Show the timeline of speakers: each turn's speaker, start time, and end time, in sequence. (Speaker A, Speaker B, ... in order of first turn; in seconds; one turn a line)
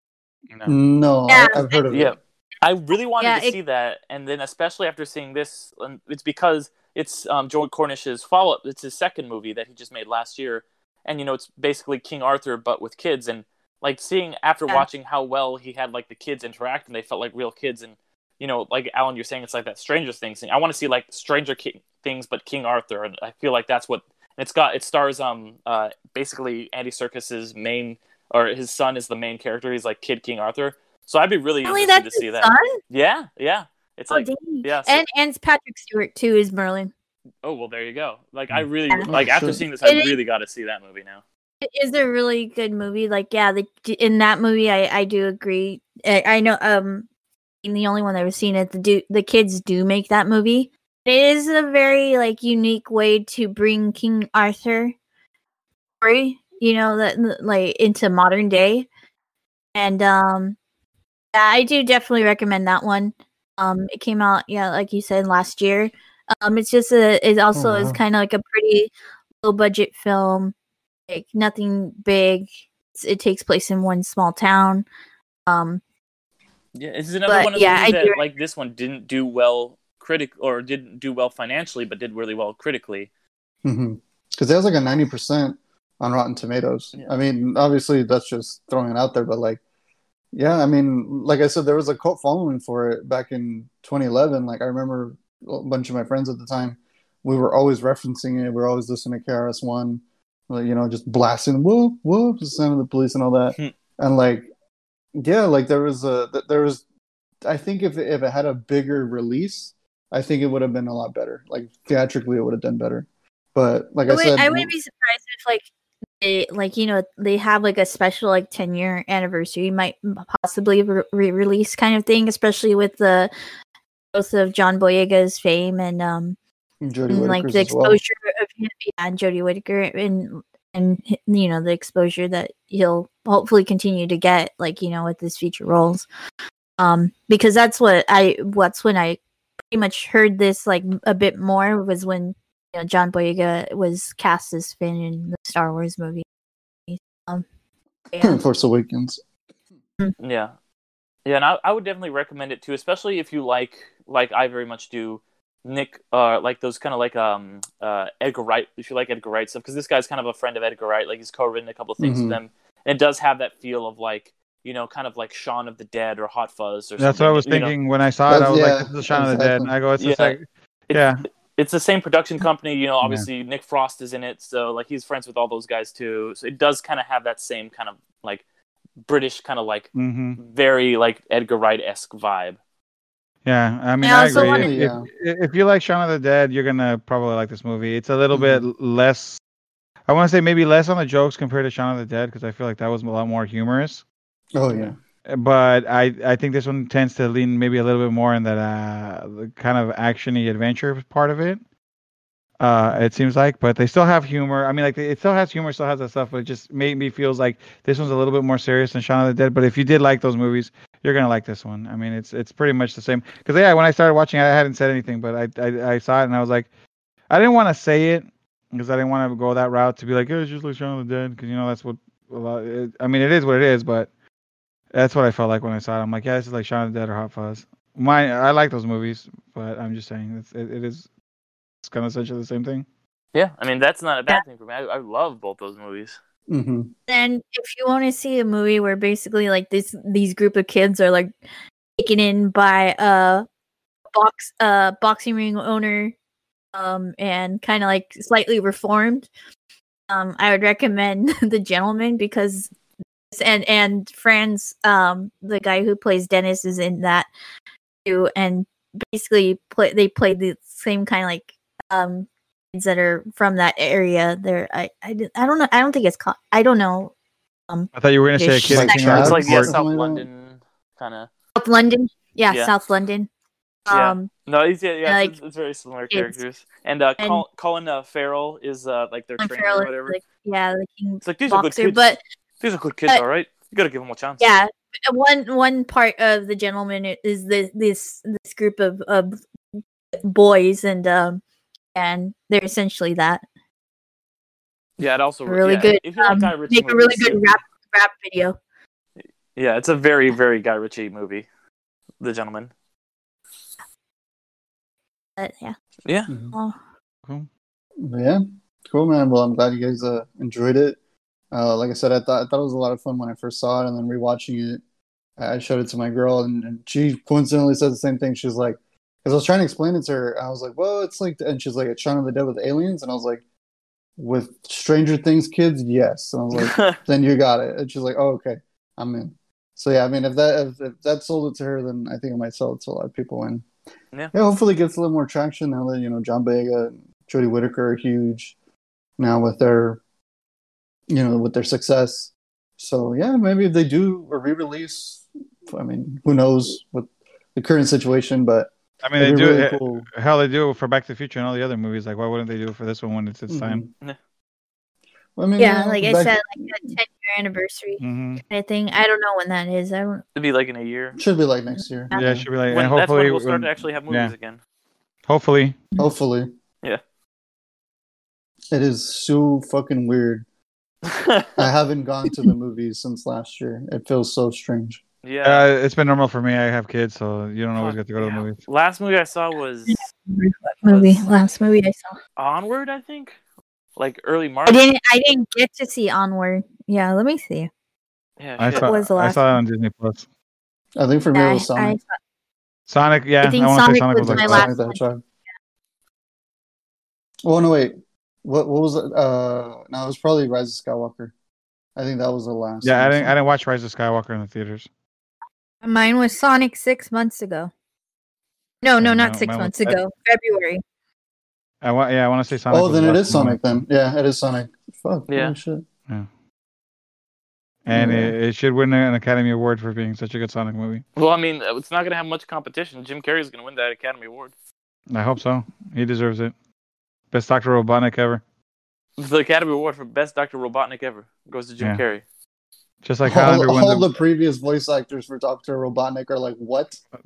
Speaker A: 0.7-2.1
Speaker B: 1.3-1.8
Speaker C: 1.9-35.0
Speaker B: 3.2-3.5
Speaker B: 31.6-32.8
Speaker B: 34.1-36.9
Speaker C: 37.4-41.2
Speaker A: 39.1-39.6
Speaker B: 39.8-40.1
Speaker B: 41.6-47.0
Speaker B: 47.6-54.9
Speaker B: 56.0-58.9
Speaker B: 59.7-60.6
Speaker B: 61.3-68.9
Speaker A: 67.5-68.0
Speaker B: 69.4-70.5
Speaker B: 71.1-74.8
Speaker B: 75.5-75.8
Speaker C: 76.7-83.1
Speaker B: 77.3-78.2
Speaker A: 83.6-89.6
Speaker A: 90.3-104.5
Speaker A: 105.2-106.8
Speaker A: 107.4-114.7
Speaker B: 114.1-115.7
Speaker B: 116.2-123.3
Speaker B: 124.1-126.4
Speaker A: 126.8-128.0
Speaker B: 127.1-136.1
Speaker B: 136.8-139.2
Speaker B: 139.7-146.2
Speaker B: 146.9-147.4
Speaker B: 148.1-148.4
Speaker A: 148.2-149.2
Speaker C: 150.2-150.5
Speaker C: 151.2-167.7
Speaker A: 162.0-162.4
Speaker D: 167.0-171.2
Speaker A: 168.3-169.7
Speaker C: 170.0-170.4
Speaker C: 170.9-178.4
Speaker C: 179.0-182.6
Speaker D: 179.9-180.4
Speaker D: 183.4-189.4
Speaker B: 184.0-184.7
Speaker A: 184.2-185.1
Speaker A: 188.3-188.7
Speaker D: 190.1-194.0
Speaker A: 194.5-195.0
Speaker D: 194.7-201.6
Speaker D: 202.6-216.7
Speaker D: 217.3-224.1
Speaker D: 224.9-231.1
Speaker D: 231.8-232.8
Speaker C: 233.3-236.2
Speaker A: 236.5-236.9
Speaker B: 237.1-241.3
Speaker B: 242.0-243.4
Speaker B: 244.1-246.1
Speaker B: 246.7-249.3
Speaker B: 250.1-252.7
Speaker B: 253.3-257.3
Speaker B: 258.0-267.1
Speaker B: 267.7-269.3
Speaker D: 267.9-269.7
Speaker A: 268.6-270.3
Speaker C: 268.9-271.3
Speaker B: 271.6-273.3
Speaker B: 273.9-274.3
Speaker C: 273.9-280.2
Speaker B: 275.0-275.3
Speaker B: 276.1-276.4
Speaker B: 277.2-277.4
Speaker B: 279.4-282.2
Speaker C: 281.2-282.0
Speaker C: 282.6-284.5
Speaker B: 284.4-289.4
Speaker B: 290.2-291.4
Speaker B: 291.9-293.4
Speaker C: 295.0-297.6
Speaker B: 295.5-298.6
Speaker C: 299.5-301.5
Speaker C: 302.2-302.7
Speaker B: 305.4-305.7
Speaker C: 306.1-306.3
Speaker A: 306.3-306.5
Speaker A: 308.0-311.0
Speaker A: 311.5-314.8
Speaker A: 315.4-323.4
Speaker A: 324.2-333.6
Speaker C: 326.5-327.0
Speaker A: 334.3-338.5
Speaker A: 339.2-340.0
Speaker A: 341.1-350.1
Speaker D: 349.0-353.8
Speaker A: 353.5-353.9
Speaker A: 355.4-356.9
Speaker B: 355.6-360.2
Speaker D: 358.0-358.4
Speaker C: 360.3-361.2
Speaker A: 361.1-362.5
Speaker D: 362.1-364.3
Speaker C: 362.7-364.6
Speaker D: 365.3-365.8
Speaker A: 366.0-366.5
Speaker A: 368.7-370.4
Speaker C: 371.0-371.6
Speaker A: 371.6-375.0
Speaker C: 375.2-375.6
Speaker D: 375.4-378.6
Speaker C: 377.7-380.0
Speaker B: 379.9-382.2
Speaker C: 380.9-381.2
Speaker C: 382.4-383.4
Speaker C: 383.9-384.8
Speaker B: 384.7-387.7
Speaker C: 388.4-388.9
Speaker D: 388.6-390.2
Speaker B: 388.7-389.6
Speaker A: 390.9-392.0
Speaker B: 391.3-392.2
Speaker D: 392.9-394.7
Speaker B: 393.4-395.0
Speaker A: 394.2-395.2
Speaker A: 397.4-401.3
Speaker A: 401.9-403.3
Speaker D: 402.8-404.9
Speaker B: 405.8-407.7
Speaker B: 408.8-410.8
Speaker D: 409.0-410.0
Speaker D: 411.8-413.8
Speaker A: 412.7-415.8
Speaker C: 415.3-415.5
Speaker D: 417.8-421.0
Speaker A: 417.9-418.3
Speaker C: 421.1-424.5
Speaker D: 425.1-426.5
Speaker D: 427.3-428.4
Speaker C: 429.2-432.2
Speaker D: 433.0-434.1
Speaker A: 433.2-437.0